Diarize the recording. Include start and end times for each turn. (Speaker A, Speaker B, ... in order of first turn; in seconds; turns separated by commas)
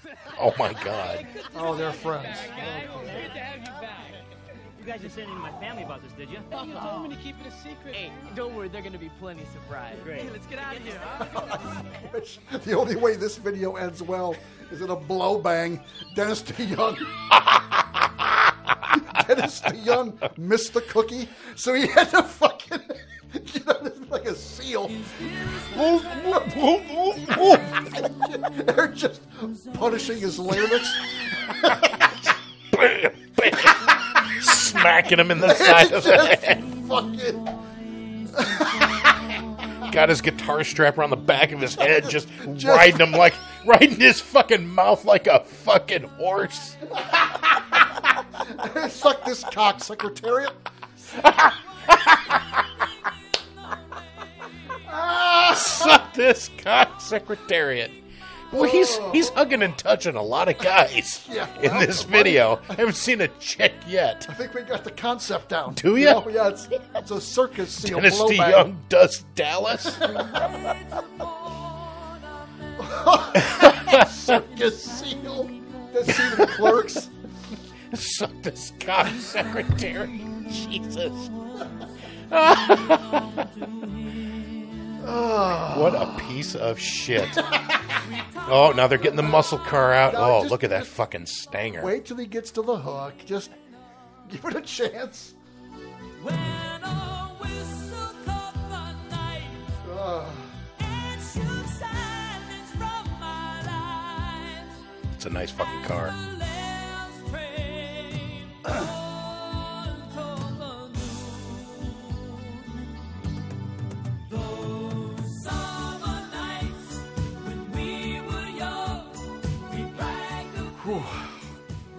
Speaker A: 0.3-1.3, Speaker B: 1.5-3.3, Speaker C: 1.8-4.1, Speaker D: 1.9-4.1, Speaker E: 4.8-6.6, Speaker C: 6.5-8.4, Speaker D: 7.9-11.7, Speaker E: 10.0-10.3, Speaker C: 10.0-11.5, Speaker B: 11.2-17.1, Speaker B: 18.9-25.1, Speaker F: 24.9-31.5, Speaker A: 25.7-27.7, Speaker B: 27.5-32.0, Speaker A: 32.7-33.8, Speaker F: 33.7-35.1, Speaker A: 34.4-36.6, Speaker B: 35.4-37.4, Speaker F: 36.4-39.9, Speaker B: 38.4-39.1, Speaker A: 39.9-46.8, Speaker B: 42.1-43.2, Speaker B: 47.1-47.4, Speaker B: 48.4-50.6, Speaker A: 51.1-52.6, Speaker B: 54.9-56.0, Speaker A: 55.4-58.0, Speaker A: 58.5-64.3, Speaker B: 58.5-59.4, Speaker B: 61.2-62.8, Speaker B: 64.3-68.7, Speaker A: 65.7-66.3, Speaker A: 67.8-70.0, Speaker B: 70.0-70.3, Speaker F: 70.0-76.2, Speaker B: 72.8-77.1, Speaker A: 77.9-81.3, Speaker F: 79.0-85.1, Speaker A: 82.3-83.2, Speaker B: 85.0-86.3, Speaker A: 85.7-87.5, Speaker F: 87.9-89.2, Speaker A: 88.4-91.9, Speaker B: 89.0-90.9, Speaker B: 91.8-93.5, Speaker B: 94.2-95.3, Speaker F: 96.2-99.7, Speaker B: 99.8-100.6, Speaker F: 100.8-104.8, Speaker A: 105.1-106.1, Speaker F: 105.6-112.8, Speaker F: 114.3-121.0, Speaker B: 120.8-121.4